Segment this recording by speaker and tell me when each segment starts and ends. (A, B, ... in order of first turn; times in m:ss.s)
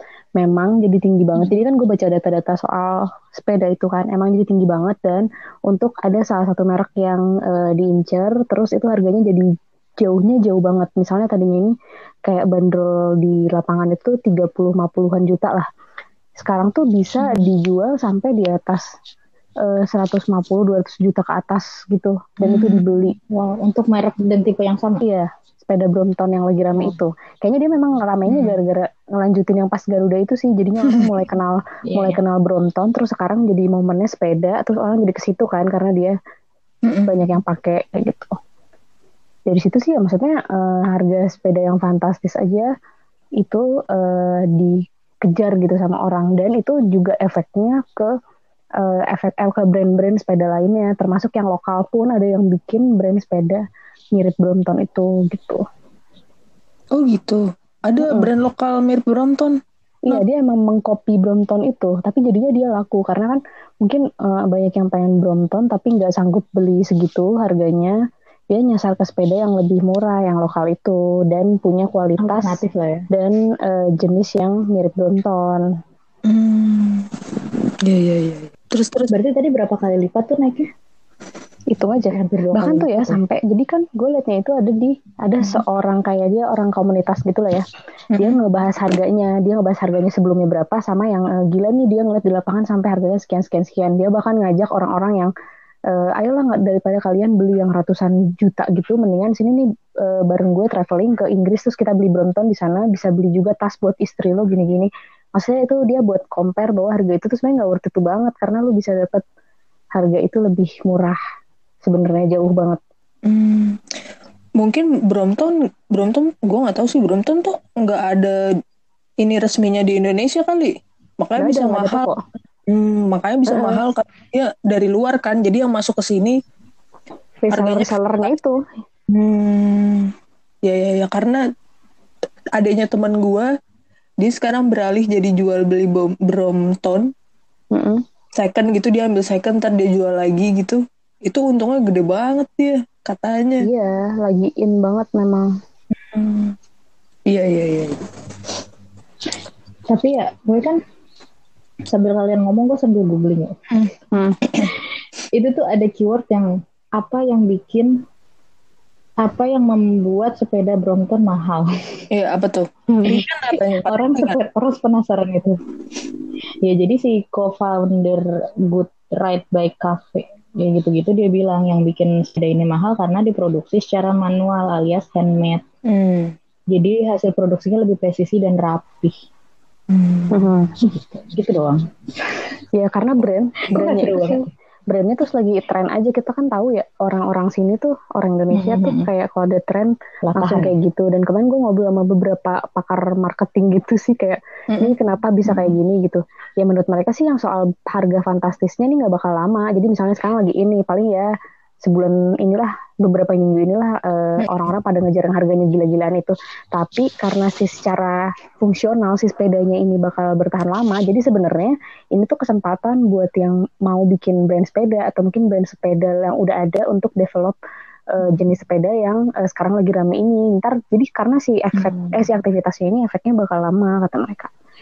0:00.4-0:09.5 A
0:10.0-0:11.7 A
0:12.2-0:15.6 A
0:16.4-0:18.8 A
0:19.6-0:23.2 A
0:22.4-0:22.8 B
0:23.3-0:25.0 C
0:25.0-0:36.1 A
0:31.9-0:32.2 C
0:36.8-0:37.3 C
0:37.1-0:38.4 A
0:39.5-0:42.7 A
0:43.4-0:48.1 A
0:48.8-0:53.6 A
0:54.1-0:55.6 A
0:56.9-0:59.6 B
0:58.0-0:58.3 A
1:00.0-1:07.9 A
1:08.5-1:15.6 A
1:12.2-1:13.1 C
1:16.2-1:17.1 B
1:17.8-1:19.1 B
1:19.1-1:20.7 C
1:21.7-1:27.6 A
1:22.1-1:23.2 C
1:28.1-1:28.4 B
1:28.2-1:35.3 A
1:35.9-1:49.2 A
1:49.9-1:51.2 A
1:51.8-1:52.8 A
1:53.2-1:53.8 B
1:54.6-1:58.4 B
1:59.2-2:02.1 B
2:01.4-2:02.2 A
2:02.7-2:06.4 B
2:03.5-2:03.8 A
2:07.4-2:08.6 A
2:07.5-2:08.3 B
2:09.1-2:10.1 B
2:10.6-2:11.4 B
2:12.6-2:13.5 B
2:14.2-2:17.1 B
2:17.7-2:18.0 A
2:18.4-2:23.6 B
2:23.6-2:25.5 A
2:26.0-2:26.5 B
2:27.3-2:28.0 B
2:29.9-2:30.8 C
2:31.9-2:33.6 C
2:34.1-2:34.4 A
2:35.3-2:38.0 C
2:39.2-2:41.7 C
2:42.1-2:44.4 B
2:42.9-2:43.2 A
2:43.1-2:45.5 C
2:46.6-2:55.6 C
2:55.9-2:56.3 B
2:56.7-2:59.2 C
2:59.9-3:00.2 C
3:00.3-3:00.7 A
3:00.8-3:01.8 C
3:02.7-3:21.3 A
3:03.7-3:04.5 C
3:08.5-3:09.1 C
3:10.2-3:10.7 C
3:15.4-3:15.7 C
3:21.8-3:37.6 A
3:38.1-3:44.5 A
3:41.8-3:42.2 C